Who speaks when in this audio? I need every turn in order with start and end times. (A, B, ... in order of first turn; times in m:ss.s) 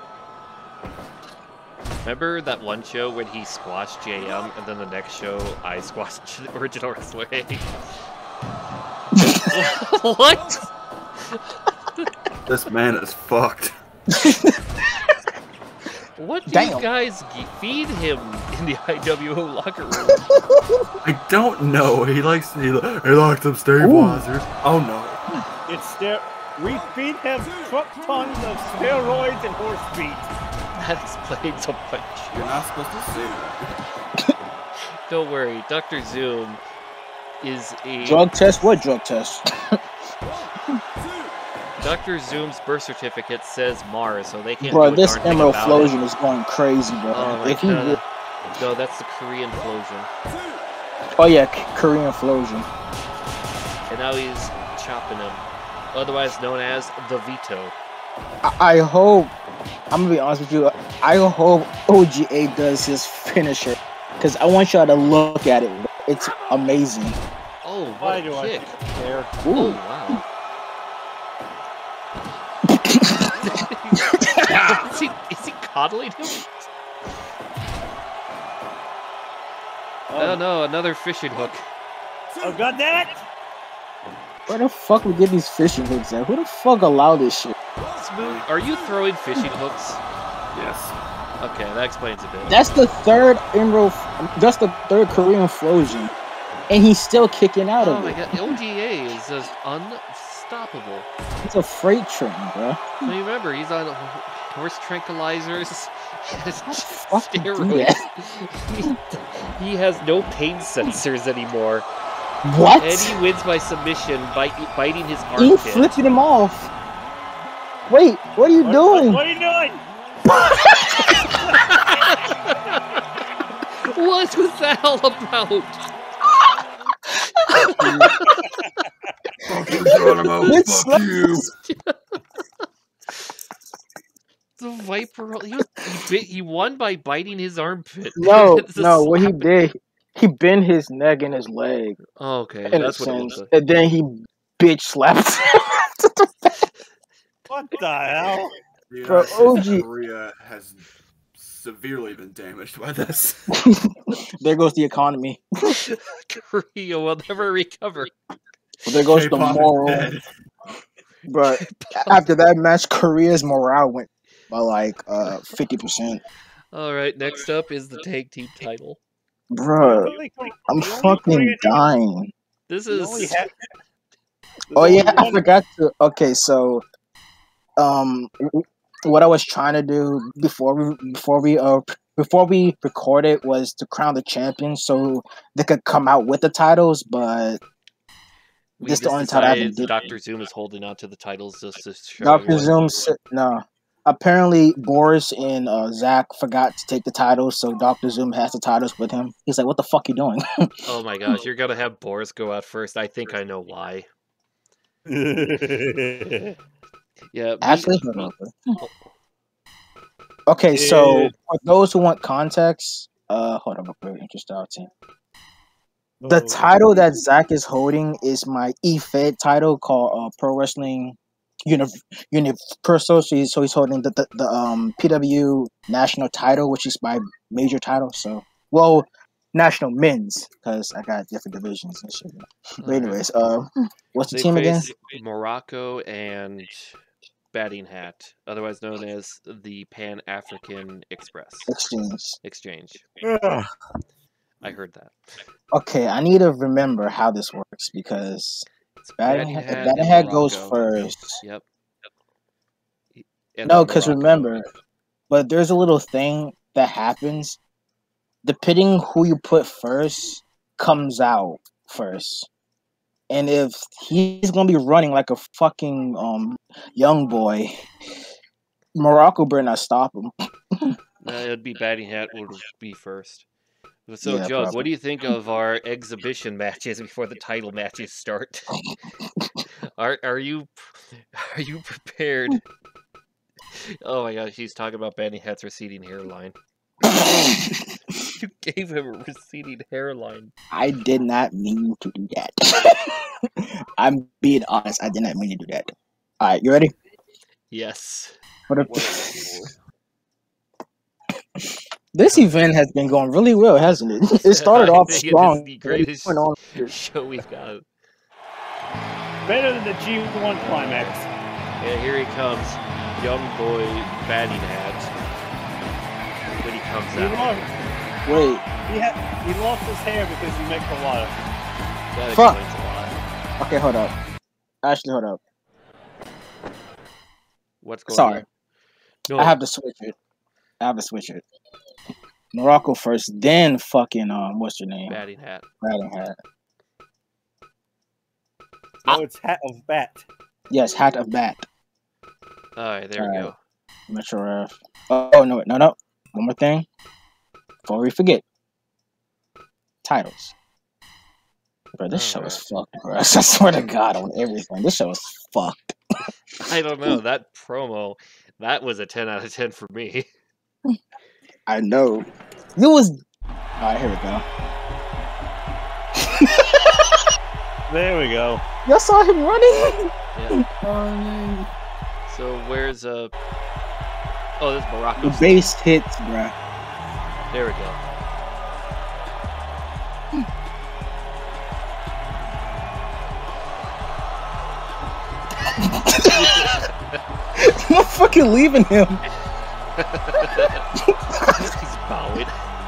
0:02.0-0:07.7 A
0:09.2-0:09.5 B
0:09.4-0:10.7 A
0:11.2-0:12.1 A
0:12.5-0:13.7 C
0:14.1-0:15.2 B
0:16.2-0:20.2 A
0:16.5-0:16.8 B
0:20.1-0:20.8 B
0:21.0-0:25.2 C
0:23.8-0:24.3 B
0:25.7-0:30.3 D
0:30.8-0:32.4 A
0:32.3-0:33.7 C
0:35.1-0:36.6 A
0:37.4-0:38.3 A
0:38.0-0:39.8 B
0:41.8-0:46.0 A
0:44.6-0:48.0 B
0:47.1-0:48.0 A
0:48.6-0:50.1 A
0:51.2-0:52.7 B
0:53.9-0:57.7 A
0:58.4-0:59.3 B
0:59.9-1:07.2 B
1:07.6-1:08.7 A
1:08.0-1:09.4 D
1:09.4-1:09.8 B
1:09.5-1:10.2 A
1:12.7-1:13.3 B
1:13.4-1:16.5 A
1:14.1-1:14.8 B
1:20.1-1:20.4 D
1:20.2-1:21.6 A
1:22.4-1:23.1 D
1:24.5-1:27.6 B
1:28.0-1:30.0 A
1:30.5-1:31.0 C
1:31.4-1:32.6 A
1:32.5-1:36.1 B
1:36.7-1:38.5 B
1:37.8-1:41.1 A
1:41.4-1:43.0 B
1:43.0-1:51.9 A
1:46.7-1:48.0 B
1:52.4-1:53.2 B
1:52.8-1:55.9 A
1:55.4-1:56.7 B
1:57.9-1:59.2 B
1:58.6-1:59.8 D
2:00.3-2:01.2 B
2:01.6-2:02.8 A
2:03.8-2:05.8 A
2:07.5-2:08.4 A
2:07.5-2:08.1 B
2:07.8-2:08.1 C
2:09.4-2:11.5 C
2:09.7-2:11.4 B
2:11.6-2:12.0 A
2:14.6-2:19.5 A
2:18.2-2:22.0 B
2:22.2-2:23.5 A
2:22.7-2:26.5 B
2:27.5-2:28.5 D
2:28.9-2:30.8 C
2:29.0-2:29.8 B
2:31.4-2:33.4 C
2:33.5-2:35.7 B
2:35.7-2:38.1 A
2:38.8-2:40.1 B
2:39.0-2:40.2 C
2:41.3-2:46.2 B
2:41.4-2:42.2 A
2:46.7-2:49.0 A
2:49.5-2:50.1 B
2:49.8-2:51.8 D
2:50.7-2:52.3 B
2:52.7-2:53.5 A
2:52.9-2:53.5 D
2:54.7-2:55.4 D
2:54.8-2:56.8 B
2:57.8-3:07.6 B
3:08.8-3:13.1 A
3:08.8-3:10.1 B
3:12.2-3:20.4 B
3:20.9-3:24.1 A
3:25.1-3:26.5 D
3:27.3-3:29.1 A
3:27.6-3:28.5 B
3:30.5-3:34.9 B
3:30.7-3:31.3 D
3:36.2-3:36.8 D
3:36.3-3:54.9 B
3:52.8-3:53.2 A
3:54.3-3:57.0 A
3:57.5-4:01.7 A
4:01.7-4:02.4 B
4:02.4-4:03.0 A
4:03.2-4:03.7 D
4:04.6-4:05.2 A
4:05.7-4:08.7 B
4:09.0-4:10.8 A
4:09.2-4:11.4 B
4:13.2-4:14.5 A
4:13.7-4:14.7 B
4:15.3-4:17.6 B
4:18.4-4:22.5 B
4:23.3-4:27.8 B
4:29.0-4:30.9 B
4:31.2-4:33.4 A
4:34.1-4:38.7 A
4:34.2-4:34.9 B
4:40.0-4:42.6 A
4:43.8-4:46.6 A
4:47.1-4:47.8 B
4:48.3-4:50.5 A
4:50.7-4:56.9 B
4:57.7-4:58.3 A
4:58.7-4:59.5 B
4:58.8-4:59.7 C
5:01.6-5:06.9 B
5:04.4-5:07.8 A
5:09.5-5:11.1 D
5:10.6-5:11.3 A
5:11.8-5:15.1 A
5:16.6-5:17.7 A
5:17.1-5:17.7 D
5:18.3-5:18.6 B
5:18.9-5:21.3 D
5:22.1-5:23.2 A
5:23.6-5:24.1 B
5:24.8-5:25.4 B
5:27.8-5:28.4 A
5:28.1-5:28.4 B
5:29.3-5:29.6 A
5:29.4-5:30.2 B
5:30.8-5:31.4 B
5:32.5-5:35.2 B
5:35.1-5:35.6 A
5:35.8-5:36.4 B
5:39.1-5:40.3 D
5:40.7-5:41.7 B
5:42.8-5:43.6 A
5:43.2-5:43.5 B
5:44.1-5:46.9 B
5:47.9-5:48.4 B
5:50.0-5:50.5 B
5:52.0-5:56.0 B
5:52.1-5:52.6 A
5:56.6-6:00.3 A
6:01.7-6:03.2 B
6:03.8-6:04.4 B
6:06.2-6:07.2 B
6:07.9-6:08.6 D
6:08.9-6:11.1 B
6:10.4-6:10.6 A
6:11.0-6:11.6 C
6:12.3-6:13.3 A
6:14.6-6:15.7 A
6:15.2-6:16.5 B
6:17.5-6:18.0 A
6:25.8-6:26.7 B
6:26.2-6:27.2 A
6:27.6-6:29.2 B
6:30.0-6:30.8 A
6:31.0-6:31.7 B
6:31.5-6:32.5 A